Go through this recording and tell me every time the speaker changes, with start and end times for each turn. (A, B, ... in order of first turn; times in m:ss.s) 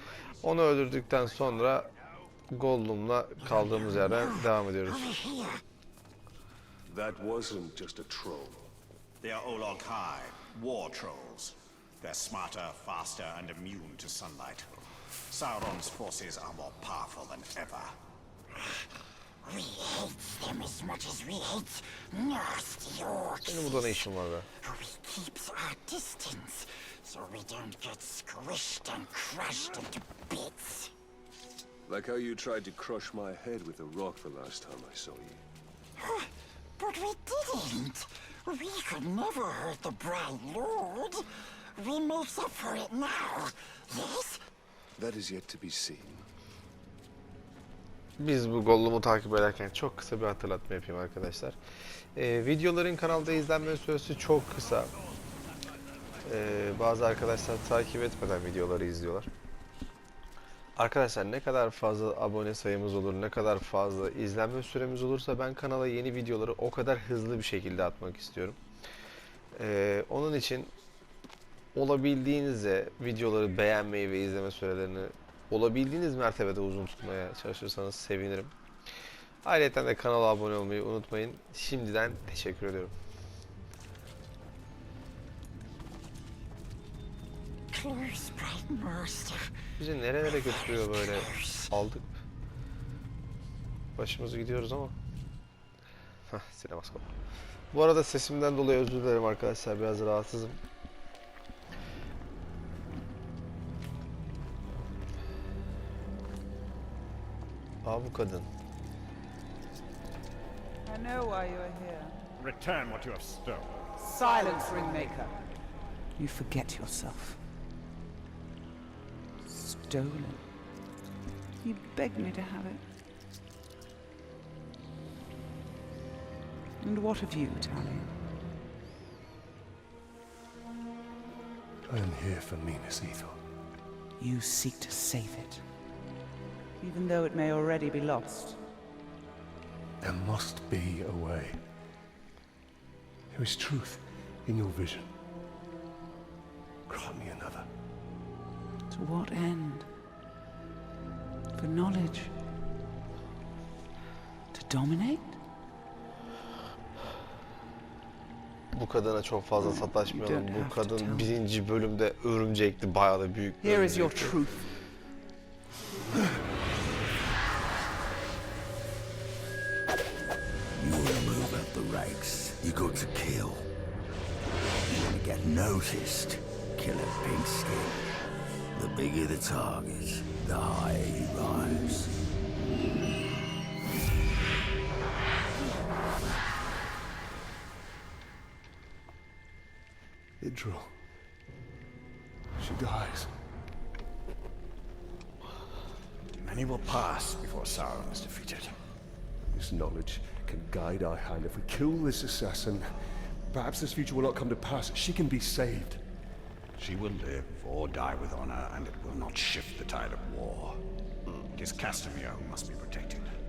0:00.4-0:01.9 A
0:02.5-0:05.1 A
0:04.9-0:05.6 B
0:06.8-0:08.6 C
0:09.2-0:17.9 D
0:18.5-0:18.8 B
0:19.4-0:24.0 B
0:23.4-0:24.5 A
0:24.6-0:30.9 B
0:31.8-0:35.4 C
0:36.0-0:44.4 B
0:45.0-0:46.2 C
0:48.2-0:51.6 A
0:52.1-0:54.9 A
0:56.2-0:59.3 A
1:00.8-1:08.6 A
1:09.5-1:10.7 A
1:11.7-1:18.5 A
1:19.4-1:22.9 A
1:27.7-1:29.5 B
1:29.8-1:32.1 A
1:30.3-1:31.7 B
1:34.0-1:34.9 A
1:36.3-1:37.1 A
1:37.7-1:40.6 A
1:47.8-1:48.5 A
1:50.8-1:52.1 E
1:52.4-1:53.8 D
1:54.0-1:55.3 E
1:56.2-1:57.4 E
1:59.5-2:00.4 E
2:01.6-2:02.8 E
2:06.8-2:08.1 E
2:11.9-2:13.4 C
2:14.2-2:15.6 E
2:16.8-2:18.6 E
2:20.0-2:21.6 C
2:23.3-2:25.1 C
2:26.9-2:27.7 C
2:28.9-2:29.9 E
2:31.6-2:32.3 E
2:34.5-2:35.4 E
2:38.7-2:44.4 A
2:39.6-2:41.3 E
2:43.6-2:44.7 E
2:50.7-2:53.7 F
2:54.9-2:58.1 F
2:58.7-3:02.1 F
3:10.4-3:10.9 C
3:12.6-3:13.3 C
3:16.3-3:18.8 D
3:19.5-3:22.9 C
3:23.5-3:26.0 C
3:26.8-3:30.8 D
3:31.5-3:33.3 D